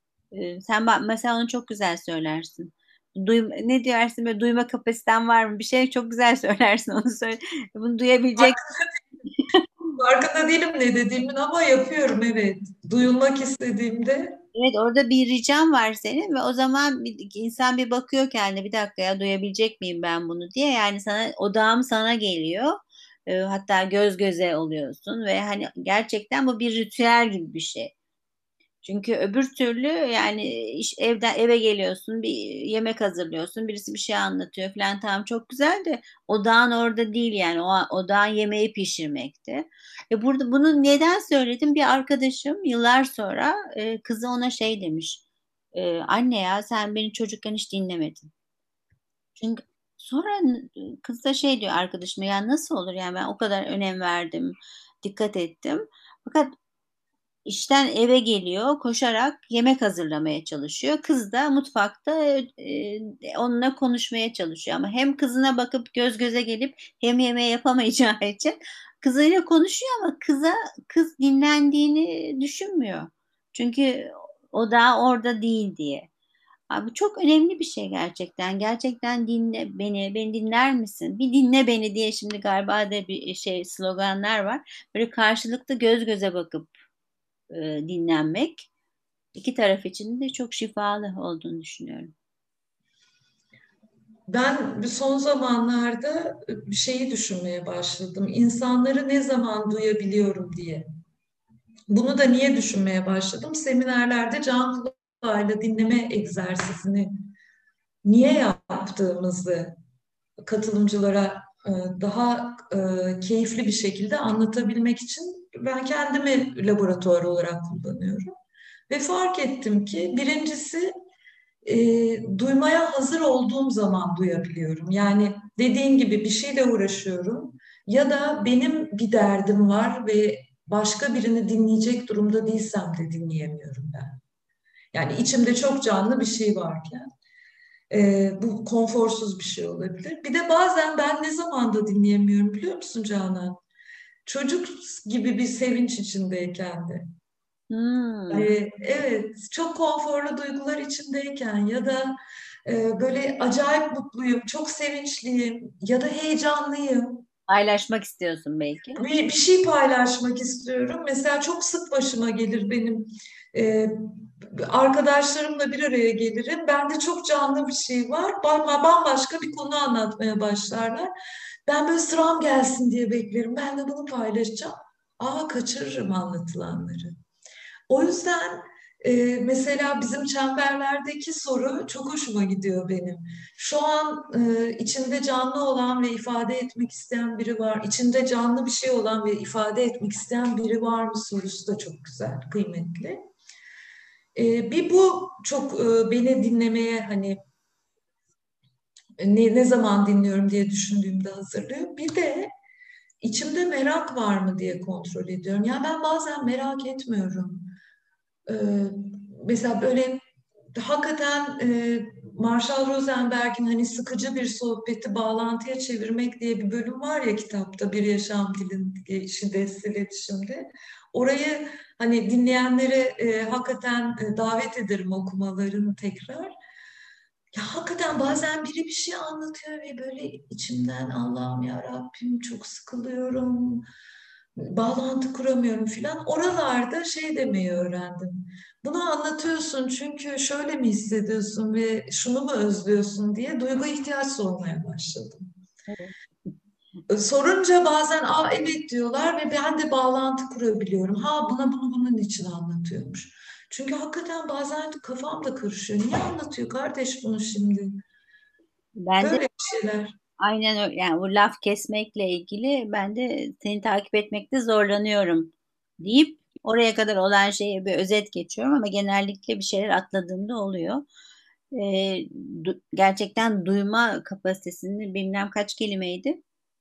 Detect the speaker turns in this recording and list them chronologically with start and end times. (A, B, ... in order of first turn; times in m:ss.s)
0:00.3-0:08.6 A
0:08.4-0:08.6 B
0:10.0-0:14.4 B
0:14.5-0:22.8 A
0:23.3-0:27.9 A
0:28.8-0:45.2 A
0:45.7-0:48.3 A
0:49.4-0:56.5 A
0:57.4-1:16.1 A
1:16.7-1:26.7 A
1:27.5-1:28.7 A
1:29.3-1:32.1 A
1:34.3-1:40.8 B
1:41.9-1:47.1 B
1:48.0-1:49.8 B
1:50.4-1:58.3 B
1:58.9-2:00.9 B
2:01.6-2:14.2 B
2:14.9-2:17.0 B
2:17.9-2:23.6 B
2:24.2-2:27.0 B
2:27.7-2:28.5 A
2:28.3-2:37.2 B
2:37.5-2:39.0 A
2:39.0-2:43.9 B
2:44.6-2:51.1 B
2:51.7-2:57.1 B
2:57.9-3:13.2 B
3:14.3-3:17.4 B
3:19.2-3:22.5 B
3:23.2-3:27.7 B
3:28.5-3:30.2 B
3:30.8-3:46.5 B
3:47.5-3:53.8 B
3:54.6-4:05.5 B
4:07.1-4:17.9 B
4:19.0-4:19.4 A
4:19.2-4:20.1 B
4:20.4-4:31.0 A
4:31.7-4:36.4 A